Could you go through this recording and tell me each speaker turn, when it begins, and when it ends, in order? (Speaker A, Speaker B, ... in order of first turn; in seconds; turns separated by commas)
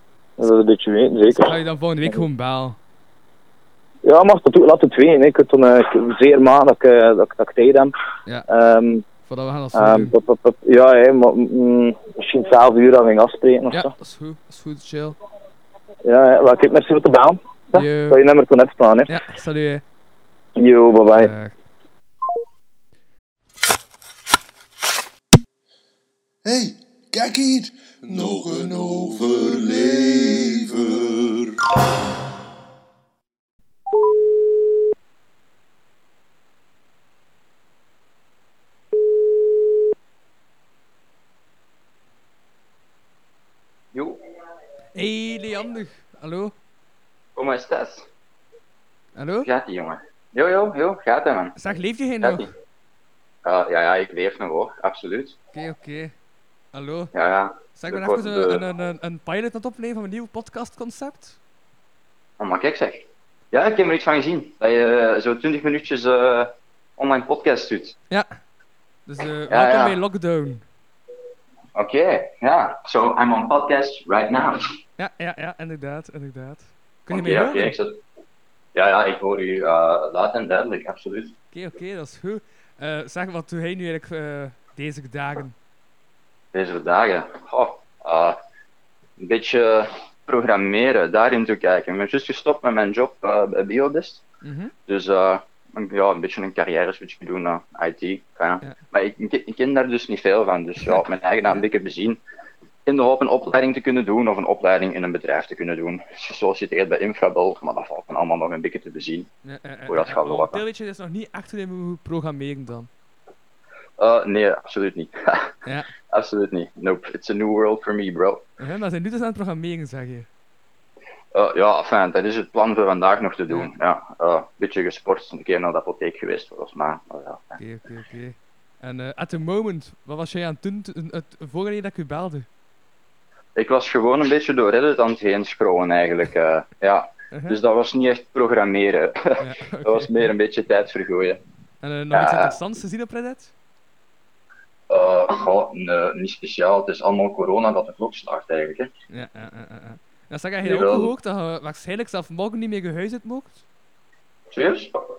Speaker A: 0.4-1.5, Speaker B: 1.3-2.8, Speaker A: 4.0-7.9, Speaker A: 8.5-9.0, Speaker B: 9.2-10.1, Speaker A: 9.7-13.9, Speaker B: 13.7-15.2, Speaker A: 16.0-19.1, Speaker B: 17.7-18.2, Speaker B: 19.1-19.8, Speaker A: 20.6-21.3, Speaker B: 21.1-21.5, Speaker C: 26.4-31.6, Speaker D: 43.9-44.2, Speaker B: 44.9-46.5, Speaker D: 47.4-48.1, Speaker B: 49.2-49.5, Speaker D: 49.4-51.6, Speaker B: 51.5-52.5, Speaker D: 52.2-52.5, Speaker D: 53.4-55.4, Speaker B: 55.5-56.1, Speaker B: 56.7-57.1, Speaker D: 57.1-58.6, Speaker B: 57.7-61.4, Speaker D: 62.4-68.0, Speaker B: 68.1-68.4, Speaker B: 69.0-70.6, Speaker D: 69.5-70.0, Speaker D: 71.8-74.6, Speaker B: 75.0-77.7, Speaker D: 77.1-78.0, Speaker D: 78.7-81.3, Speaker B: 81.5-85.5, Speaker D: 86.5-88.4, Speaker D: 89.2-94.2, Speaker B: 94.4-94.7, Speaker D: 94.9-102.2, Speaker B: 100.9-101.6, Speaker D: 102.8-109.3, Speaker B: 109.4-112.9, Speaker D: 109.9-110.6, Speaker D: 114.0-115.5, Speaker B: 115.6-115.9, Speaker D: 116.1-118.4, Speaker B: 118.6-120.3, Speaker D: 121.3-127.6, Speaker B: 127.6-132.5, Speaker D: 133.6-141.4, Speaker B: 139.4-140.3, Speaker B: 141.8-143.5, Speaker D: 142.1-142.6, Speaker D: 144.9-148.9, Speaker B: 149.1-153.6, Speaker D: 150.6-151.1, Speaker D: 154.5-154.9